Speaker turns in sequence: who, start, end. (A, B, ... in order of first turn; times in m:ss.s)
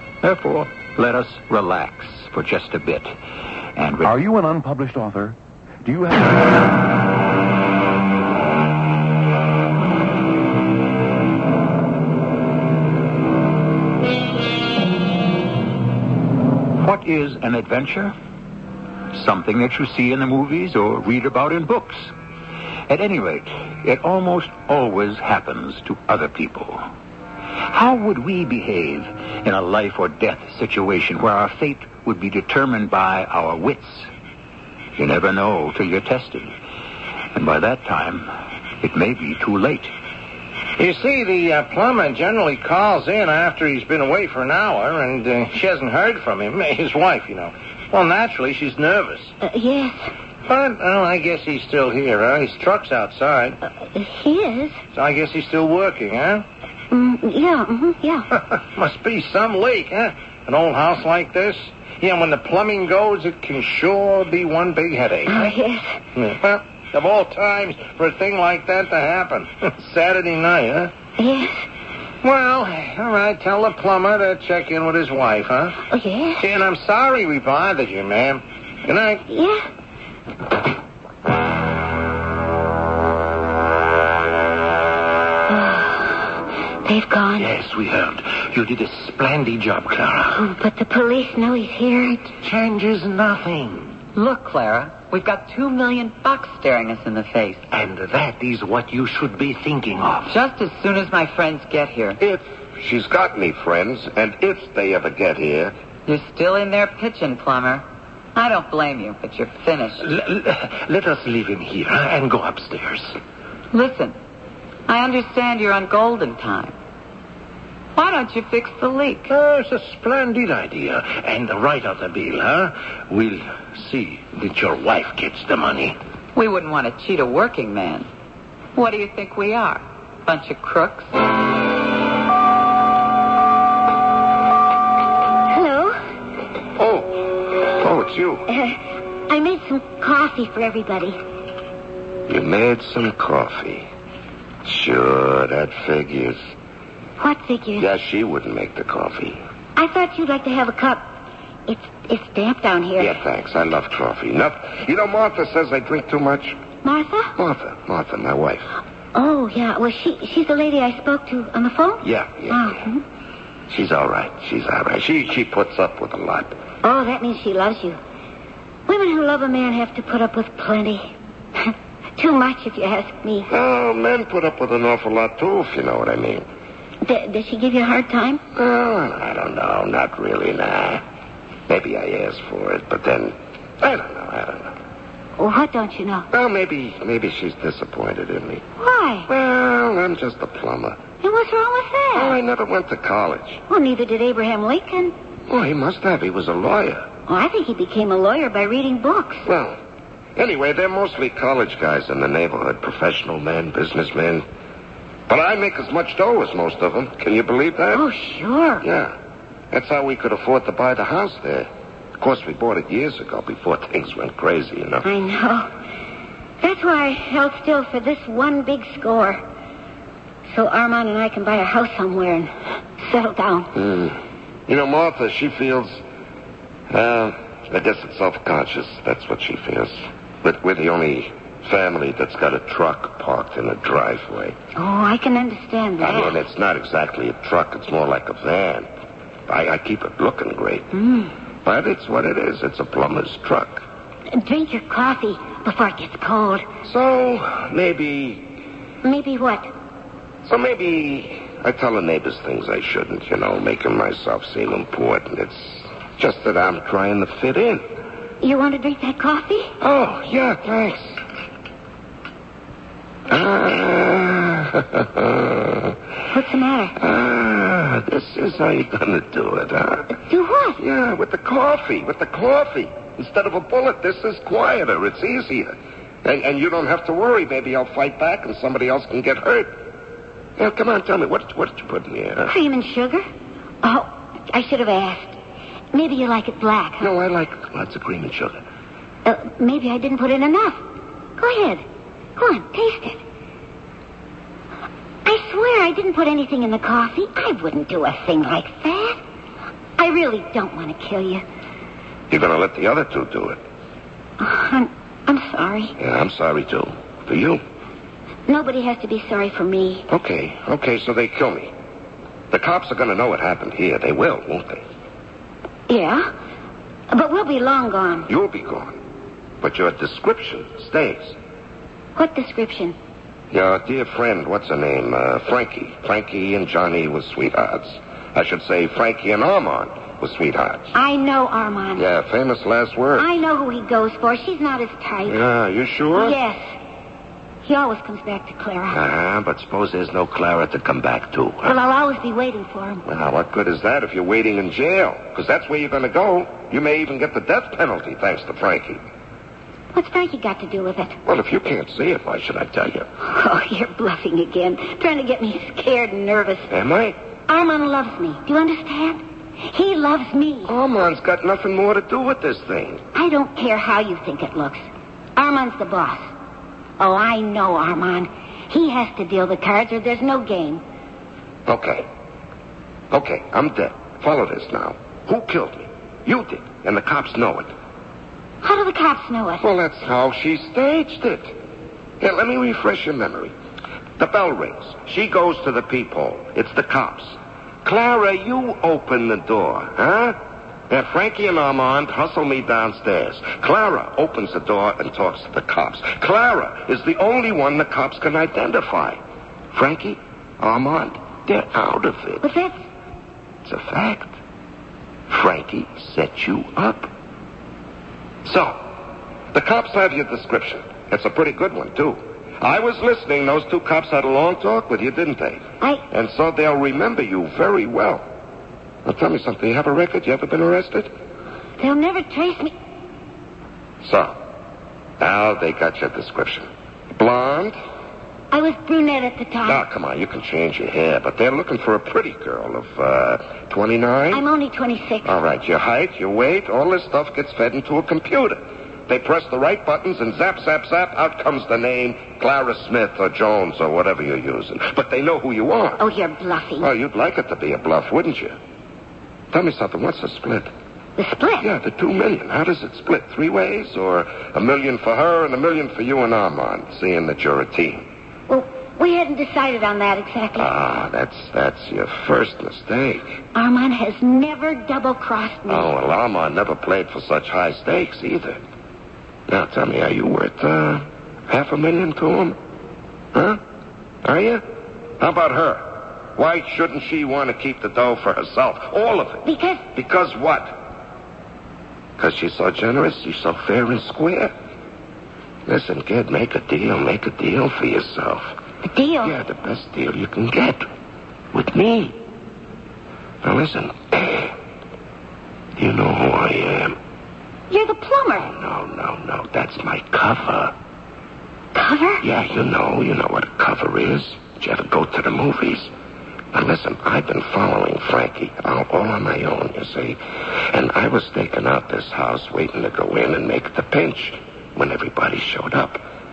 0:00.2-0:03.2 A
0:03.8-0:04.2 A
0:04.0-0:06.4 B
0:16.8-0:18.1 A
0:19.1-0:22.1 A
0:22.9-0:26.9 A
0:27.7-0:34.1 A
0:35.0-0:36.6 A
0:37.3-0:38.3 A
0:38.8-0:39.9 A
0:40.8-0:49.4 C
0:49.4-0:50.1 D
0:50.5-0:53.6 C
0:53.8-0:54.8 D
0:54.9-0:56.5 C
0:56.9-0:58.3 D
0:58.4-1:05.6 C
1:05.3-1:05.9 D
1:06.2-1:10.9 C
1:11.2-1:11.6 D
1:12.2-1:15.8 C
1:15.9-1:16.4 D
1:16.4-1:19.2 C
1:19.3-1:19.6 D
1:25.5-1:27.5 D
1:27.4-1:30.4 C
1:30.3-1:32.3 D
1:32.3-1:34.0 C
1:34.2-1:37.6 E
1:37.7-1:40.3 C
1:40.3-1:42.2 E
1:42.2-1:45.7 F
1:46.1-1:50.0 E
1:50.0-1:53.1 C
1:53.7-1:54.2 E
1:54.9-1:56.8 E
1:58.0-1:59.3 E
1:59.3-2:06.0 C
2:06.4-2:08.1 E
2:08.8-2:11.1 E
2:15.5-2:16.0 D
2:16.8-2:18.5 F
2:18.5-2:21.2 D
2:22.3-2:23.9 F
2:24.6-2:26.4 F
2:27.2-2:27.9 D
2:27.8-2:29.4 F
2:29.8-2:31.2 D
2:31.7-2:33.1 D
2:33.0-2:36.6 F
2:36.8-2:37.4 D
2:37.4-2:38.7 F
2:39.1-2:43.0 D
2:42.0-2:42.8 F
2:43.7-2:46.6 F
2:46.8-2:48.0 D
2:48.9-2:53.5 D
2:53.5-2:56.5 F
2:57.0-2:58.4 D
2:58.6-3:01.0 F
3:01.7-3:04.7 F
3:05.4-3:06.3 D
3:06.3-3:08.6 F
3:08.8-3:09.3 D
3:09.3-3:11.0 F
3:11.2-3:12.4 D
3:12.1-3:13.6 F
3:13.7-3:15.1 D
3:15.5-3:17.1 F
3:17.3-3:19.5 D
3:19.4-3:19.8 F
3:20.4-3:24.4 F
3:25.3-3:28.0 F
3:27.9-3:28.8 D
3:28.8-3:29.2 F
3:29.7-3:35.1 F
3:35.0-3:35.7 D
3:36.6-3:39.4 D
3:40.5-3:43.7 D
3:43.8-3:46.0 F
3:46.9-3:54.6 F
3:54.8-3:56.4 D
3:56.0-3:58.9 F
3:59.5-4:00.9 F
4:00.9-4:01.3 D
4:01.6-4:03.8 F
4:04.4-4:06.7 D
4:06.8-4:08.6 F
4:09.0-4:09.7 D
4:10.4-4:17.8 F
4:18.4-4:19.7 D
4:19.8-4:21.2 F
4:23.3-4:26.0 F
4:26.3-4:27.0 D
4:27.0-4:30.2 F
4:30.3-4:30.8 D
4:30.8-4:39.8 F
4:40.6-4:42.5 F
4:42.4-4:43.2 D
4:43.8-4:45.4 D
4:45.9-4:47.1 D
4:47.0-4:48.6 F
4:49.2-4:50.8 D
4:51.4-4:51.8 D
4:52.4-4:53.2 D
4:55.2-4:59.2 D
5:00.0-5:01.4 D
5:02.3-5:03.6 F
5:04.4-5:06.0 D
5:06.0-5:07.6 F
5:08.5-5:10.1 D
5:10.1-5:11.7 F
5:12.5-5:14.8 F
5:15.9-5:16.3 D
5:17.1-5:18.3 D
5:18.3-5:19.0 F
5:19.6-5:21.4 F
5:22.2-5:23.0 D
5:23.5-5:30.9 F
5:30.9-5:32.1 D
5:32.0-5:33.3 F
5:33.2-5:35.4 D
5:35.3-5:36.4 F
5:36.2-5:36.6 D
5:37.6-5:39.0 D
5:38.9-5:41.8 F
5:41.6-5:43.0 D
5:43.0-5:49.0 F
5:49.9-5:51.2 D
5:51.2-5:53.1 F
5:53.2-5:56.7 D
5:56.7-5:57.2 F
5:57.5-6:00.7 D
6:00.6-6:03.0 F
6:03.1-6:04.8 D
6:05.4-6:06.3 D
6:07.0-6:10.8 D
6:11.7-6:12.1 F
6:13.1-6:17.7 F
6:18.6-6:19.6 D
6:19.6-6:21.6 F
6:22.2-6:23.5 F
6:24.2-6:39.2 F
6:39.7-6:42.5 F
6:42.4-6:42.8 D
6:43.6-6:44.4 F
6:45.3-6:47.1 F
6:48.4-6:49.0 F
6:49.5-6:58.3 F
6:59.0-7:01.1 F
7:01.8-7:02.7 D
7:04.0-7:04.4 F
7:05.2-7:07.8 F
7:08.5-7:09.8 D
7:09.6-7:14.4 F
7:14.3-7:15.4 D
7:15.2-7:26.0 F
7:26.0-7:26.9 D
7:26.8-7:28.6 F
7:29.5-7:30.7 F
7:31.2-7:31.7 D
7:31.6-7:38.1 F
7:38.5-7:40.7 D
7:40.6-7:43.4 F
7:43.5-7:45.9 D
7:45.7-7:48.6 F
7:49.5-7:52.6 F
7:53.3-7:53.6 F
7:54.2-7:54.6 F
7:55.2-8:00.9 F
7:59.4-7:59.8 D
8:02.2-8:04.5 F
8:05.7-8:08.6 F
8:08.8-8:09.4 D
8:09.2-8:10.9 F
8:11.5-8:12.2 F
8:13.4-8:14.5 F
8:15.8-8:17.0 F
8:17.7-8:18.5 D
8:18.4-8:20.8 F
8:21.8-8:22.2 D
8:22.2-8:25.9 F
8:26.5-8:36.0 F